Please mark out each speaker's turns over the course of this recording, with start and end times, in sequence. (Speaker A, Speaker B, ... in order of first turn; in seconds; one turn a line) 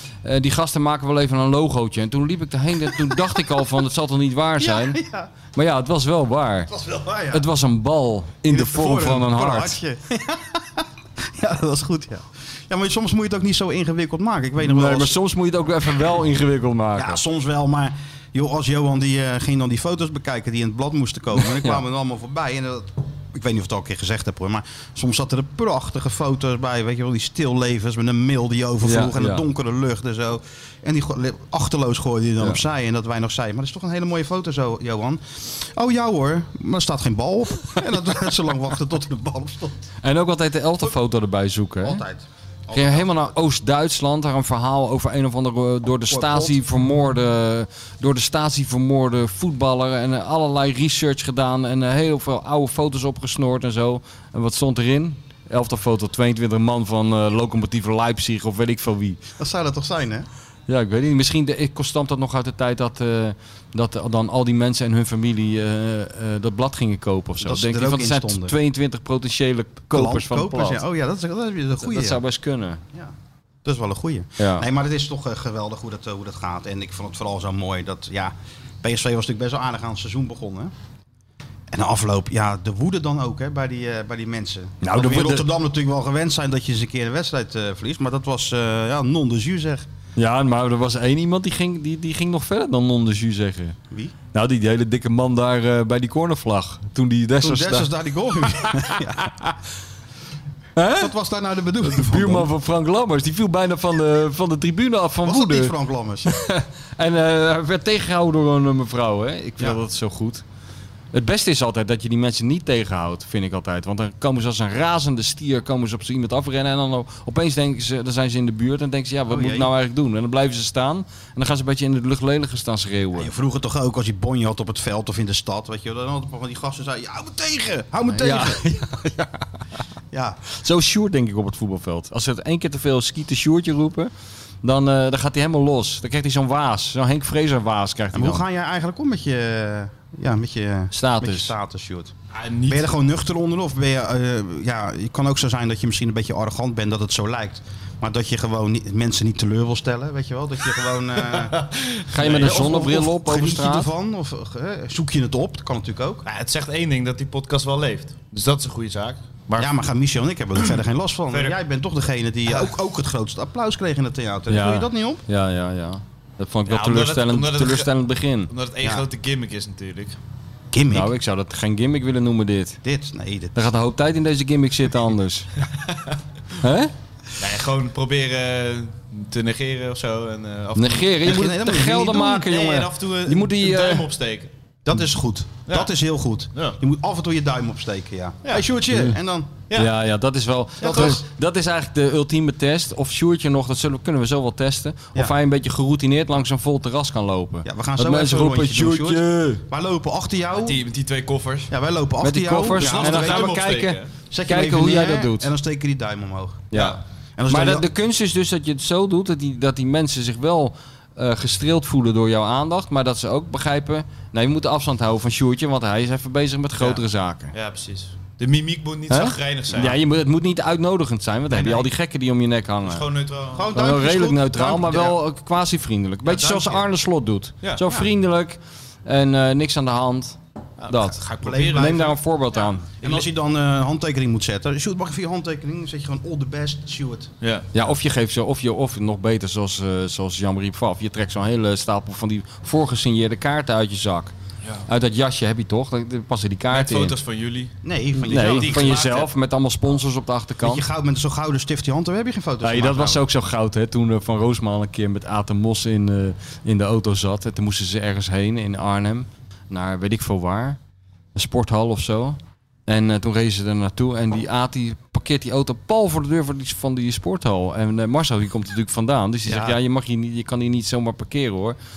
Speaker A: 0.2-5.0
Speaker B: 2.9-3.2
Speaker B: 4.6-5.3
Speaker A: 5.5-6.7
Speaker B: 6.7-7.5
Speaker A: 7.3-9.8
Speaker B: 8.5-15.2
Speaker A: 14.6-17.2
Speaker B: 17.0-39.9
Speaker A: 21.4-21.8
Speaker A: 28.8-29.4
Speaker A: 40.0-42.0
Speaker B: 41.8-43.4
Speaker A: 42.7-59.2
Speaker B: 46.1-46.6
Speaker B: 59.4-60.3
Speaker A: 60.7-70.8
Speaker B: 67.4-68.6
Speaker B: 69.9-72.2
Speaker A: 71.8-72.8
Speaker B: 72.9-80.7
Speaker A: 74.4-74.7
Speaker B: 81.7-89.9
Speaker A: 84.8-85.5
Speaker A: 90.2-93.8
Speaker A: 94.3-97.9
Speaker B: 97.4-99.3
Speaker A: 98.5-99.5
Speaker A: 100.8-101.1
Speaker B: 100.9-102.5
Speaker A: 101.8-105.7
Speaker B: 105.2-106.3
Speaker A: 106.2-110.4
Speaker A: 111.1-123.3
Speaker B: 119.3-119.7
Speaker B: 123.2-128.6
Speaker A: 128.1-129.4
Speaker B: 130.1-130.4
Speaker A: 130.5-134.1
Speaker A: 134.6-138.4
Speaker B: 138.1-142.1
Speaker A: 140.9-141.5
Speaker C: 142.3-142.8
Speaker B: 142.7-151.6
Speaker C: 151.2-152.6
Speaker A: 152.1-153.9
Speaker B: 152.2-156.3
Speaker C: 156.2-159.7
Speaker B: 159.6-165.2
Speaker C: 161.3-161.6
Speaker A: 164.5-168.5
Speaker C: 166.7-167.9
Speaker C: 168.5-170.2
Speaker B: 170.7-171.1
Speaker A: 170.9-172.8
Speaker B: 172.8-173.6
Speaker A: 173.6-175.5
Speaker C: 175.7-176.2
Speaker A: 176.6-176.9
Speaker C: 177.4-181.5
Speaker A: 180.8-184.1
Speaker B: 181.2-182.5
Speaker C: 182.3-184.5
Speaker B: 184.8-189.5
Speaker A: 189.7-199.6
Speaker C: 190.8-191.2
Speaker B: 190.8-191.2
Speaker B: 197.7-200.8
Speaker C: 200.6-201.7
Speaker B: 201.7-203.6
Speaker A: 202.2-205.5
Speaker C: 202.7-204.1
Speaker B: 204.3-206.7
Speaker A: 206.7-217.5
Speaker C: 206.7-207.0
Speaker B: 207.4-207.9
Speaker C: 216.8-220.0
Speaker A: 219.1-223.1
Speaker C: 221.5-221.9
Speaker C: 222.8-223.7
Speaker B: 223.5-225.2
Speaker A: 223.7-232.9
Speaker C: 226.2-226.8
Speaker B: 226.4-226.8
Speaker C: 227.6-228.1
Speaker C: 230.8-232.1
Speaker B: 231.0-232.2
Speaker B: 232.8-237.3
Speaker C: 233.0-233.3
Speaker C: 237.4-237.7
Speaker A: 237.7-244.3
Speaker A: 244.9-247.2
Speaker C: 246.7-249.3
Speaker B: 247.8-249.1
Speaker A: 248.3-250.8
Speaker B: 250.6-253.3
Speaker A: 252.6-260.8
Speaker A: 261.4-271.8
Speaker B: 269.5-269.8